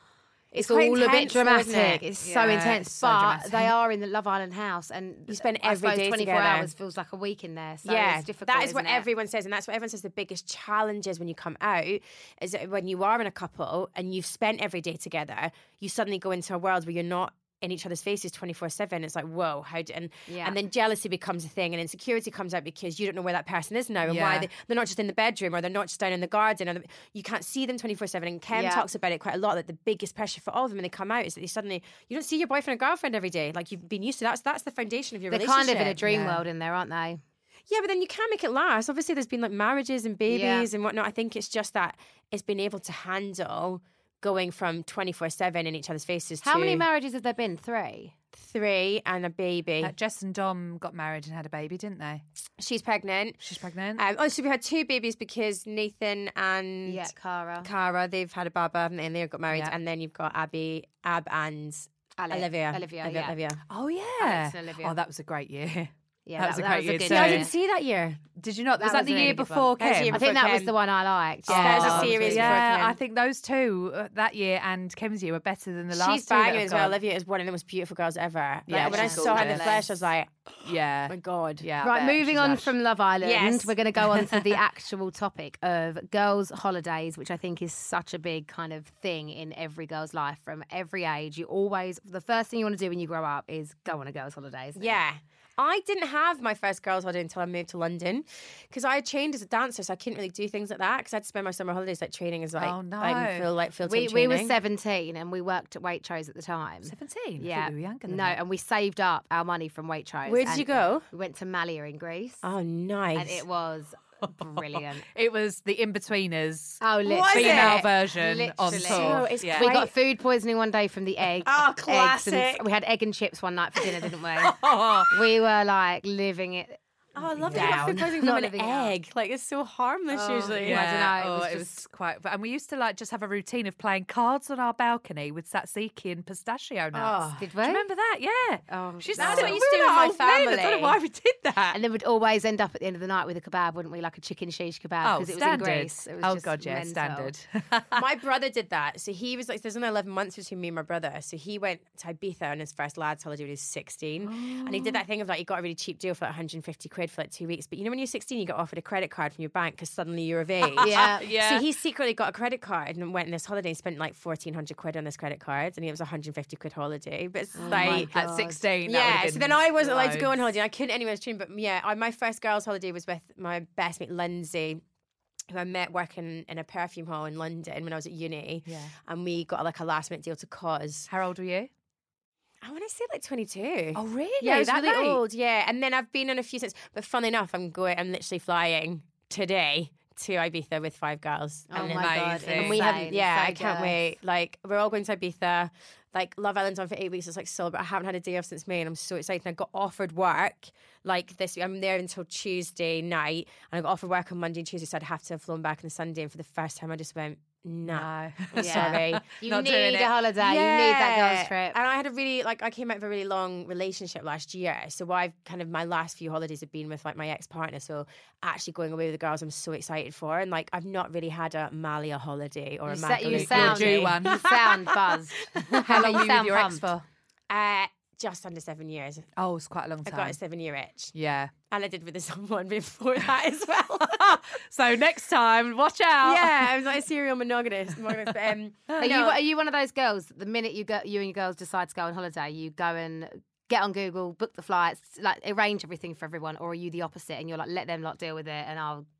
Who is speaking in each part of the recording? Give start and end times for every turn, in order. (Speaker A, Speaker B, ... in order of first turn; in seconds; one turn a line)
Speaker A: 0.5-2.1
Speaker B: 0.5-9.1
Speaker C: 2.2-3.7
Speaker A: 5.3-6.7
Speaker A: 7.8-36.3
Speaker B: 20.3-20.6
Speaker C: 24.1-24.5
Speaker B: 28.5-28.9
Speaker B: 35.3-37.2
Speaker A: 37.7-46.8
Speaker B: 40.3-40.7
Speaker B: 46.4-48.1
Speaker A: 48.3-49.9
Speaker C: 49.8-52.2
Speaker A: 52.6-53.4
Speaker C: 53.4-54.0
Speaker A: 54.0-57.1
Speaker B: 56.9-57.7
Speaker A: 57.6-63.6
Speaker B: 62.2-63.3
Speaker C: 63.7-67.5
Speaker B: 64.2-65.0
Speaker B: 66.2-67.5
Speaker A: 67.0-68.2
Speaker C: 68.4-70.2
Speaker B: 68.8-72.6
Speaker A: 69.8-70.7
Speaker A: 71.5-73.0
Speaker C: 71.5-77.0
Speaker A: 75.9-81.7
Speaker C: 78.7-79.8
Speaker B: 78.8-80.0
Speaker C: 80.6-82.7
Speaker B: 81.8-95.0
Speaker A: 83.2-83.8
Speaker A: 94.8-104.5
Speaker C: 102.6-103.5
Speaker B: 103.8-112.4
Speaker C: 106.8-108.4
Speaker A: 110.2-111.0
Speaker A: 112.4-113.4
Speaker B: 113.1-115.0
Speaker C: 114.4-119.7
Speaker B: 116.8-124.6
Speaker A: 117.0-117.9
Speaker A: 118.7-119.9
Speaker A: 121.4-122.6
Speaker C: 124.4-125.1
Speaker B: 125.1-126.8
Speaker A: 127.2-131.0
Speaker C: 127.4-128.0
Speaker B: 127.5-128.9
Speaker B: 130.1-131.8
Speaker C: 130.6-141.8
Speaker A: 136.9-137.4
Speaker B: 137.4-137.8
Speaker B: 138.7-139.6
Speaker A: 139.2-141.0
Speaker B: 141.7-147.3
Speaker C: 145.0-148.0
Speaker A: 147.9-168.1
Speaker C: 154.2-155.0
Speaker C: 160.6-161.6
Speaker B: 160.8-161.2
Speaker B: 167.6-168.6
Speaker C: 167.7-170.4
Speaker A: 168.8-174.8
Speaker A: 175.5-181.1
Speaker C: 178.7-178.9
Speaker C: 181.1-181.7
Speaker A: 182.6-225.1
Speaker C: 183.9-185.2
Speaker B: 191.7-194.0
Speaker C: 191.8-193.0
Speaker C: 207.8-210.1
Speaker B: 208.6-211.8
Speaker B: 222.9-226.9
Speaker C: 223.3-224.5
Speaker C: 225.8-227.1
Speaker A: 227.5-229.3
Speaker C: 229.4-230.4
Speaker A: 230.0-231.1
Speaker C: 231.1-231.5
Speaker A: 231.7-234.4
Speaker C: 233.9-236.7
Speaker A: 236.2-239.4
Speaker B: 239.0-249.1